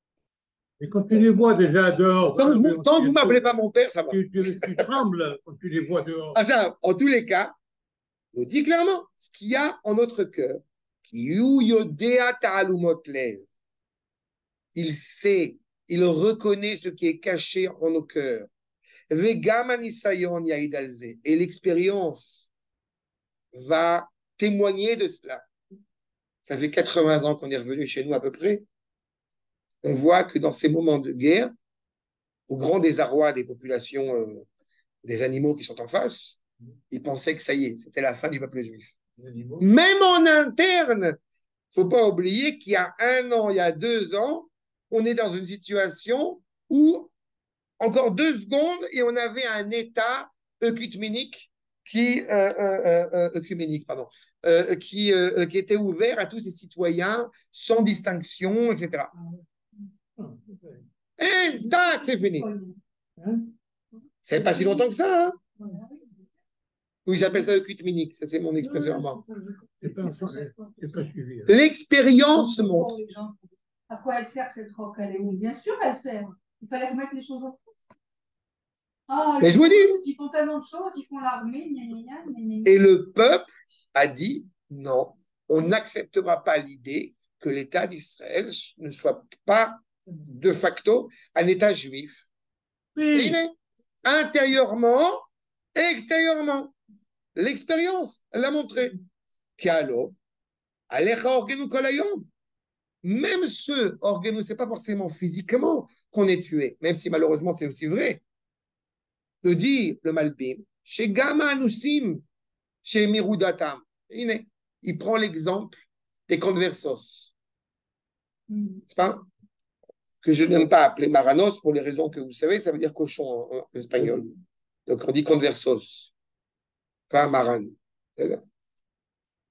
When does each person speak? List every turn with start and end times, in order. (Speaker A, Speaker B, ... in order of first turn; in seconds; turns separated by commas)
Speaker A: 0.8-3.5, Speaker B: 2.4-4.8, Speaker A: 4.1-6.4, Speaker B: 6.3-7.5, Speaker B: 8.3-13.5, Speaker B: 14.8-18.5, Speaker B: 19.1-22.5, Speaker B: 23.5-25.5, Speaker B: 26.4-28.6, Speaker B: 29.8-31.5, Speaker B: 32.5-34.5, Speaker B: 35.0-36.4, Speaker B: 36.9-38.9, Speaker A: 39.2-39.7, Speaker B: 39.6-41.2, Speaker B: 41.7-47.1, Speaker B: 47.8-59.1, Speaker A: 60.2-60.9, Speaker B: 61.2-62.5, Speaker C: 61.5-62.8, Speaker A: 63.2-63.5, Speaker B: 64.2-65.4, Speaker C: 64.3-64.8, Speaker C: 65.6-66.2, Speaker B: 67.1-69.2, Speaker A: 68.6-69.1, Speaker C: 69.6-70.8, Speaker A: 69.8-71.5, Speaker B: 71.5-73.0, Speaker C: 72.3-73.4, Speaker C: 73.9-77.6, Speaker C: 79.1-82.8, Speaker B: 79.4-80.0, Speaker B: 82.7-92.3, Speaker A: 93.0-93.4, Speaker B: 93.1-96.8, Speaker B: 97.3-99.0, Speaker B: 99.6-100.2, Speaker B: 100.9-102.3, Speaker B: 103.0-108.2, Speaker B: 109.4-112.2, Speaker B: 112.8-117.3, Speaker C: 118.5-118.8, Speaker B: 118.9-119.2, Speaker B: 120.2-124.3, Speaker B: 124.9-126.1, Speaker B: 127.1-128.4